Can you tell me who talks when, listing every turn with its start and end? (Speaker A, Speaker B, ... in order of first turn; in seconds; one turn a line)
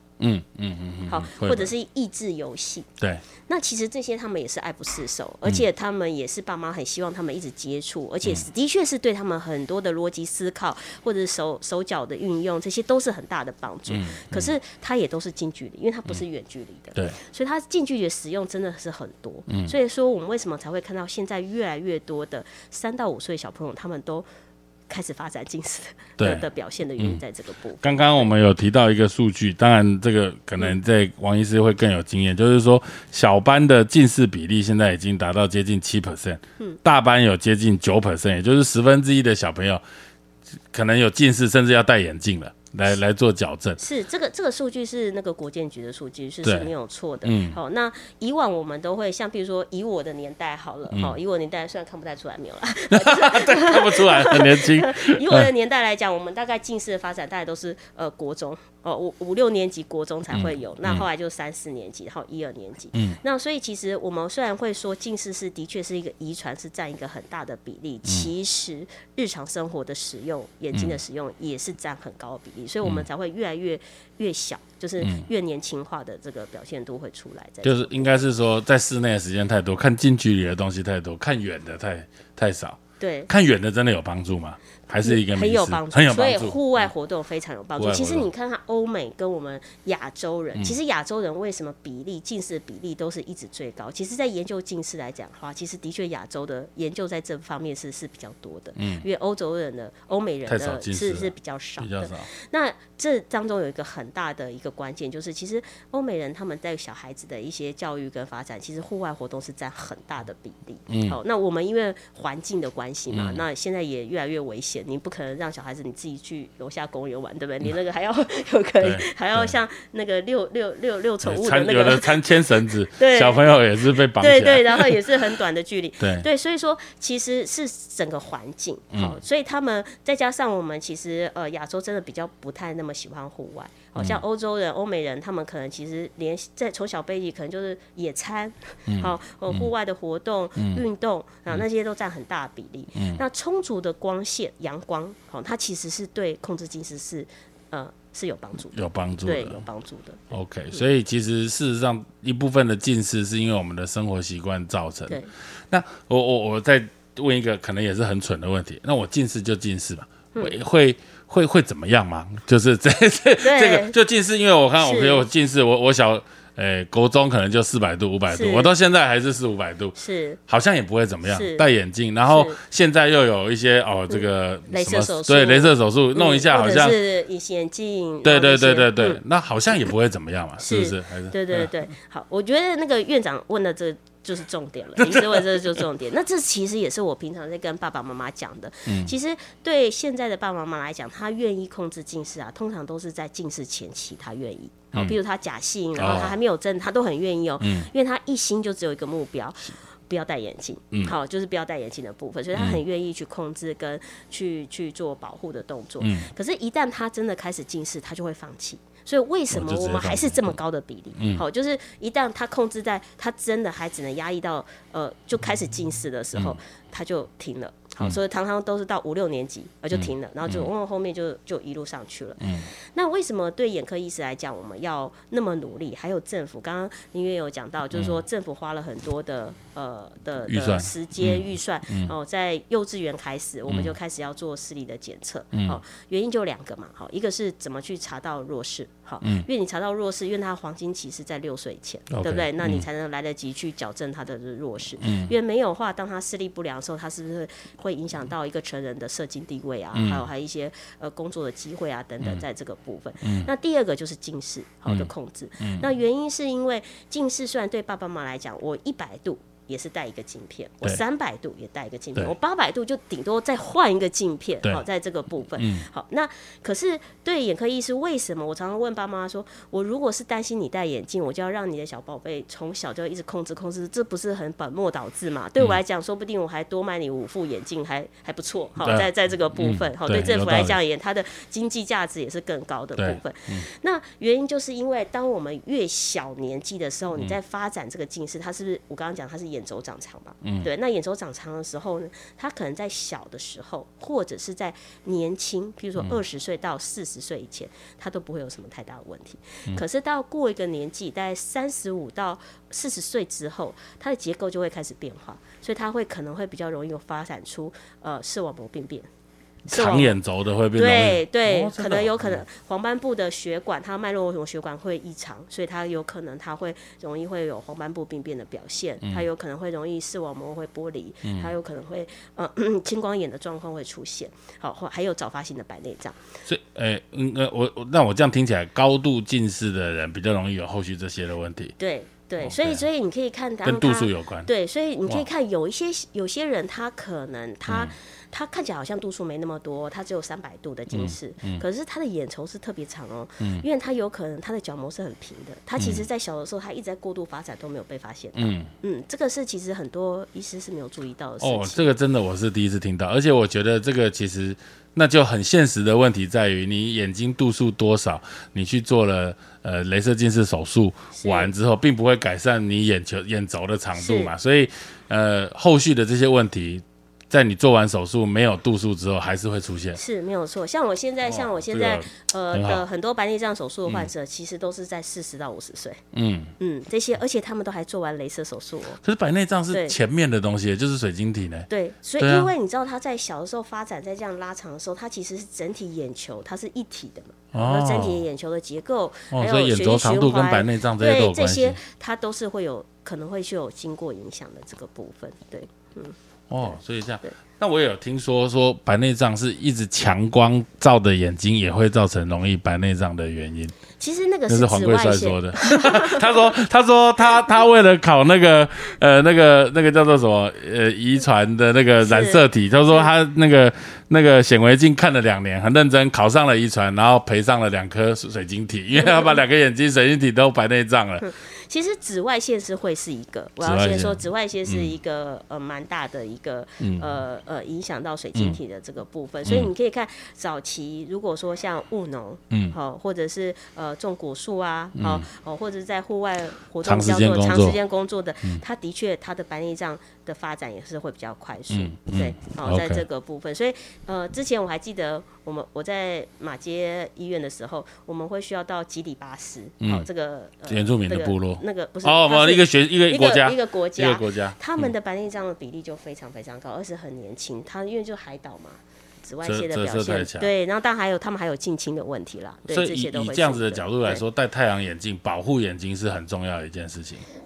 Speaker A: 0.2-1.7
Speaker B: 1.1-2.9
Speaker B: 3.5-24.3
Speaker A: 13.9-14.5
Speaker A: 19.5-19.7
Speaker B: 24.9-28.3
Speaker A: 26.2-26.4
Speaker A: 27.8-39.8
Speaker A: 40.7-43.8
Speaker B: 43.8-78.2
Speaker A: 46.4-46.7
Speaker A: 47.2-47.6
Speaker A: 50.9-51.2
Speaker A: 52.9-55.5
Speaker A: 60.3-61.0
Speaker A: 70.7-71.0
Speaker A: 75.0-75.3
Speaker A: 77.6-86.6
Speaker B: 83.0-83.3
Speaker B: 84.9-150.8
Speaker A: 87.8-88.3
Speaker A: 98.8-99.0
Speaker A: 100.5-102.3
Speaker A: 110.9-111.2
Speaker A: 113.1-113.4
Speaker A: 118.8-119.5
Speaker A: 121.2-125.1
Speaker A: 126.0-126.3
Speaker A: 134.0-134.2
Speaker A: 138.9-139.7
Speaker A: 140.6-140.8
Speaker A: 142.9-143.2
Speaker A: 148.7-149.6
Speaker A: 150.3-155.2
Speaker A: 155.7-170.0
Speaker B: 163.4-163.9
Speaker B: 164.8-165.3
Speaker B: 168.3-168.7
Speaker B: 170.0-170.4
Speaker A: 170.5-177.0
Speaker B: 171.3-171.7
Speaker B: 172.3-172.6
Speaker B: 174.1-179.2
Speaker A: 178.2-181.7
Speaker B: 180.6-309.1
Speaker A: 185.0-185.6
Speaker A: 188.9-189.1
Speaker A: 196.0-196.4
Speaker A: 197.6-197.9
Speaker A: 202.5-202.8
Speaker A: 206.0-206.3
Speaker A: 209.5-210.4
Speaker A: 211.2-211.4
Speaker A: 219.9-220.7
Speaker A: 222.4-222.7
Speaker A: 230.5-232.1
Speaker A: 233.7-233.9
Speaker A: 235.5-235.8
Speaker A: 242.1-242.9
Speaker A: 245.0-245.3
Speaker A: 249.9-250.2
Speaker A: 253.2-253.5
Speaker A: 255.6-255.9
Speaker A: 265.6-265.9
Speaker A: 278.8-279.1
Speaker A: 279.6-280.8
Speaker A: 283.0-283.7
Speaker A: 290.4-290.7
Speaker B: 309.7-310.2
Speaker A: 309.7-312.4
Speaker B: 310.8-326.2
Speaker A: 321.2-321.5
Speaker A: 326.5-331.8
Speaker B: 331.8-351.9
Speaker A: 332.4-332.8
Speaker A: 333.6-334.5
Speaker A: 337.7-337.9
Speaker A: 340.9-341.6
Speaker A: 345.8-346.0
Speaker A: 348.4-348.7
Speaker A: 351.4-370.0
Speaker B: 361.1-361.5
Speaker B: 364.0-364.3
Speaker B: 369.9-376.0
Speaker A: 371.2-372.8
Speaker A: 376.1-376.5
Speaker B: 376.6-379.0
Speaker A: 379.0-381.7
Speaker B: 379.7-380.0
Speaker B: 381.7-397.4
Speaker A: 382.2-382.5
Speaker A: 387.5-388.2
Speaker A: 389.3-391.8
Speaker A: 396.5-403.7
Speaker B: 404.0-406.3
Speaker A: 404.5-421.3
Speaker B: 412.0-413.1
Speaker B: 419.0-419.4
Speaker B: 421.2-464.2
Speaker A: 423.6-424.9
Speaker A: 426.8-427.1
Speaker A: 429.4-429.7
Speaker A: 432.5-432.8
Speaker A: 435.0-435.3
Speaker A: 436.8-437.8
Speaker A: 441.7-443.0
Speaker A: 449.8-450.1
Speaker A: 450.7-454.9
Speaker A: 459.4-460.5
Speaker A: 462.7-467.2